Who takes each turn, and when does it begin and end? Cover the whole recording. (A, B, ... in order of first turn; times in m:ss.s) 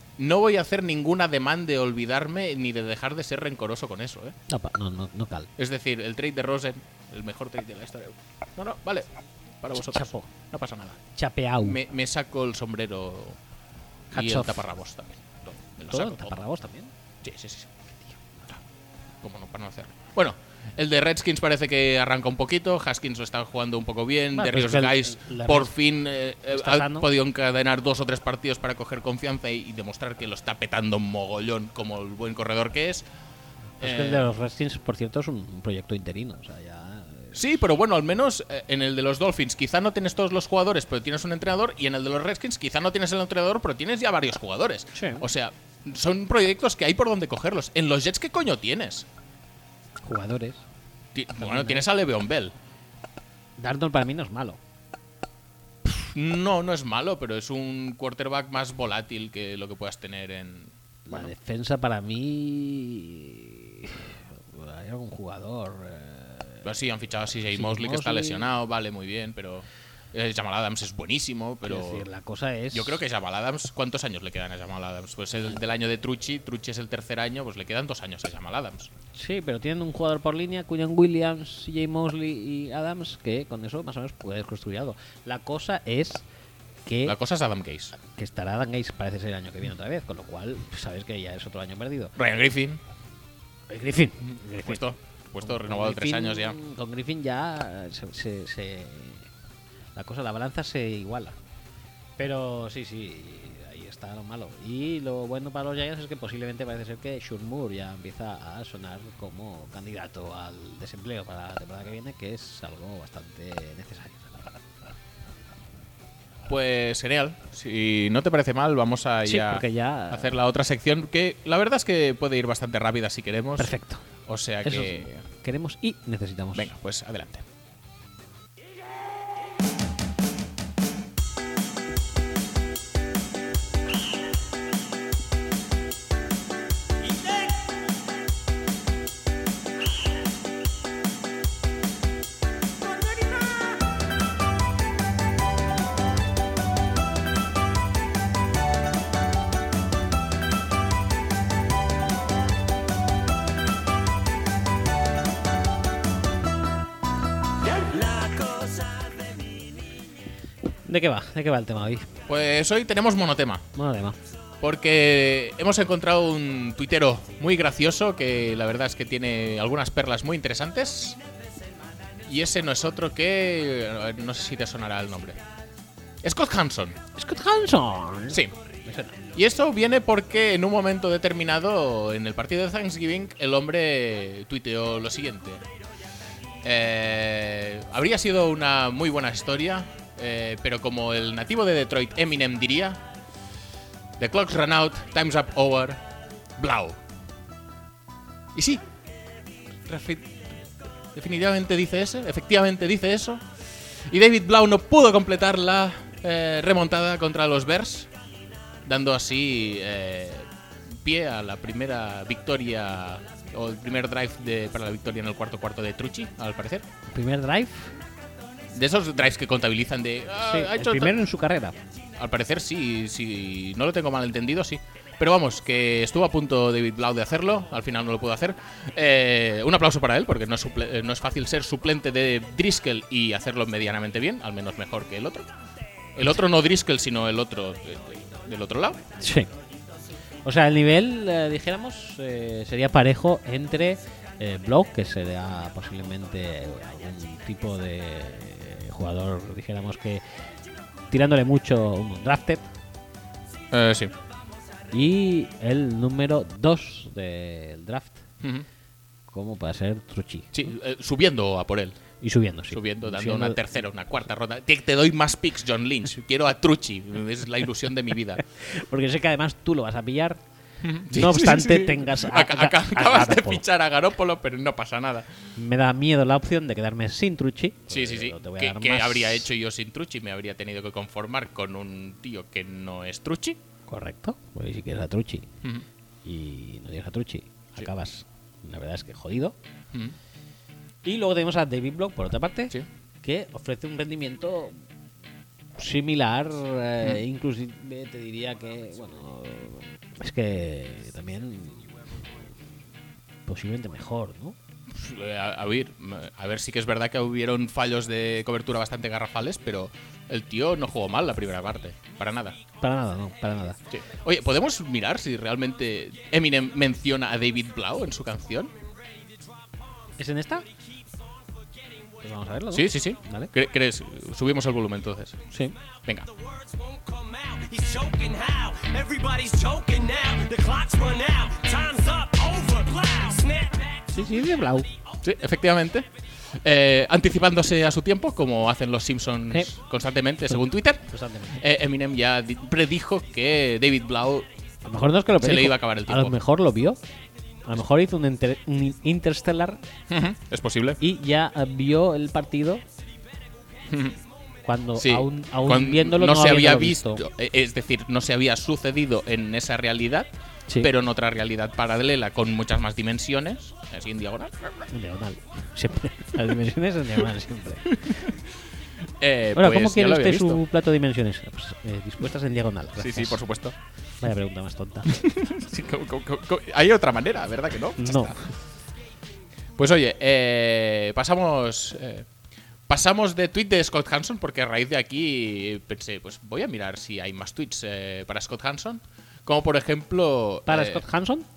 0:00.2-0:04.4 A
0:04.5-0:05.5 B
0:05.6-0:09.1 A
0:09.6-0:11.0 A
0:09.8-0:10.3 B
0:11.2-0:11.8 B
0:11.6-0:13.4 A
0:14.1-0:16.4 A
0:14.1-0:14.6 B
0:15.9-0:16.9 B
0:17.2-0:17.7 A
0:18.3-0:18.6 A
0:19.2-0:33.1 A
0:24.4-0:25.7 B
0:26.5-0:27.1 B
0:33.8-0:34.3 A
0:33.8-0:37.4 B
0:37.4-0:49.1 A
0:45.0-0:45.2 B
0:50.0-0:50.6 B
0:51.2-0:52.6 A
0:51.4-0:51.8 B
0:53.6-0:54.6 B
0:55.8-1:01.3 A
1:01.1-1:06.7 B
1:06.6-1:12.1 A
1:07.5-1:08.5 B
1:11.6-1:13.0 B
1:12.7-1:18.9 A
1:19.2-1:26.2 B
1:26.9-1:27.2 B
1:27.1-1:28.0 A
1:28.0-1:32.2 B
1:32.2-1:32.8 A
1:33.7-1:34.9 B
1:34.6-1:36.6 A
1:35.4-1:39.3 B
1:40.0-1:41.4 B
1:42.2-1:54.6 B
1:56.5-2:05.2 A
1:59.2-2:00.4 B
2:03.6-2:04.0 B
2:04.6-2:06.7 B
2:06.6-2:07.4 A
2:23.1-2:23.5 C
2:37.6-2:39.7 C
2:40.8-2:42.1 B
2:42.3-2:43.6 A
2:43.8-2:44.2 B
2:44.6-2:51.2 A
2:52.3-2:55.4 A
2:56.2-2:57.0 A
2:57.2-2:59.2 B
2:59.3-3:05.6 A
3:06.6-3:13.0 A
3:14.2-3:16.0 A
3:16.6-3:17.0 A
3:18.6-3:18.8 A
3:19.9-3:20.4 A
3:21.2-3:28.1 A
3:28.8-3:36.9 A
3:37.1-3:37.9 B
3:38.7-3:41.2 A
3:40.4-3:41.8 B
3:42.2-3:55.5 A
3:56.2-3:59.0 A
3:59.2-3:59.5 B
4:00.4-4:10.2 B
4:11.1-4:12.7 B
4:13.7-4:14.1 A
4:14.9-4:18.2 B
4:18.4-4:18.7 A
4:19.3-4:20.7 B
4:20.5-4:22.0 A
4:22.2-4:23.6 B
4:22.7-4:28.4 A
4:28.5-4:30.4 B
4:30.8-4:35.5 A
4:31.1-4:33.6 B
4:35.6-4:39.5 B
4:37.9-4:43.6 A
4:43.9-4:45.5 B
4:46.2-4:49.6 B
4:51.0-4:54.8 B
4:55.8-5:01.9 B
5:03.5-5:04.6 B
5:04.9-5:12.6 A
5:12.8-5:13.8 B
5:13.9-5:18.8 A
5:20.2-5:20.7 B
5:22.2-5:23.5 B
5:22.7-5:25.4 A
5:25.5-5:25.8 B
5:26.0-5:26.3 A
5:26.5-5:34.1 C
5:34.1-5:34.9 B
5:35.2-5:44.5 A
5:41.1-5:41.6 B
5:44.8-5:47.0 B
5:45.4-5:46.4 A
5:47.6-5:49.8 B
5:50.1-5:51.0 A
5:51.0-5:52.8 B
5:53.9-5:54.2 A
5:54.6-5:57.2 B
5:55.0-6:04.9 A
6:04.9-6:08.3 B
6:08.0-6:08.4 A
6:09.2-6:10.6 A
6:09.6-6:13.4 B
6:13.0-6:13.8 A
6:14.2-6:15.2 B
6:15.1-6:18.4 A
6:18.0-6:18.4 B
6:19.8-6:22.3 A
6:22.9-6:31.0 A
6:30.7-6:31.5 B